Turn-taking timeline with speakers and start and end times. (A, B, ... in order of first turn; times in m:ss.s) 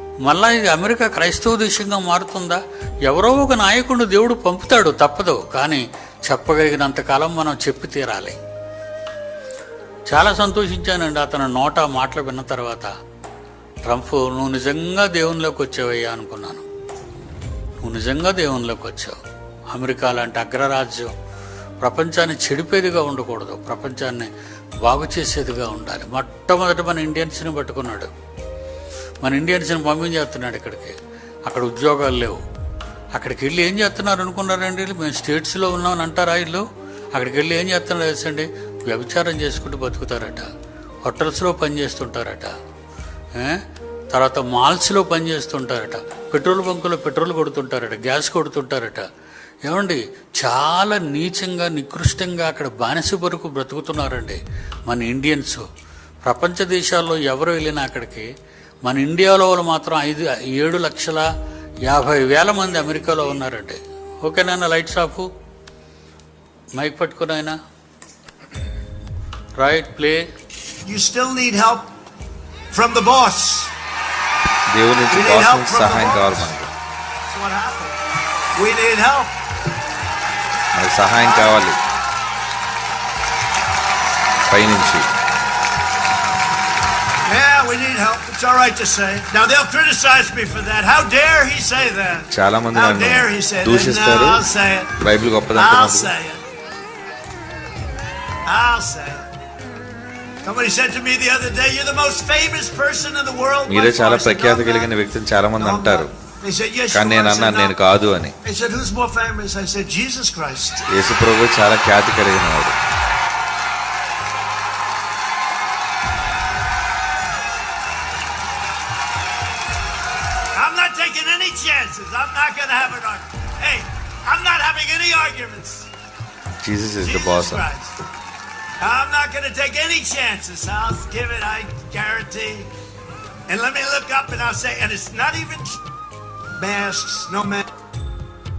0:00.2-0:08.4 A
0:10.1-0:12.9 A
0:13.8-0:16.6 A
0:17.8-0:19.2 A
0:19.7-0:21.1 A
0:21.8-0:24.3 A
0:24.8-0:28.1 A
0:29.2-0:32.4 A
0:33.1-0:40.5 A
0:41.0-0:42.5 A
0:43.3-0:49.1 A
0:49.6-0:55.6 A
0:56.2-0:58.3 A
0:58.8-1:01.3 A
1:01.8-1:05.3 A
1:06.7-1:07.6 A
1:09.6-1:10.3 A
1:10.8-1:11.9 B
1:12.7-1:13.7 B
1:14.7-1:16.7 C
1:15.1-1:16.5 B
1:17.3-1:18.0 B
1:18.6-1:19.3 B
1:20.7-1:21.8 C
1:21.2-1:21.6 B
1:24.5-1:25.1 C
1:27.2-1:35.0 B
1:32.3-1:34.4 C
1:34.9-1:36.1 C
1:35.5-1:36.4 B
1:38.4-1:39.2 B
1:40.4-1:44.9 B
1:43.7-1:46.1 C
1:45.6-1:47.8 B
1:46.9-1:48.3 C
1:48.4-1:50.9 B
1:50.9-1:52.8 C
2:00.5-2:05.9 B
2:06.6-2:07.6 C
2:07.0-2:08.0 B
2:08.8-2:12.7 B
2:13.5-2:15.8 B
2:16.6-2:17.6 B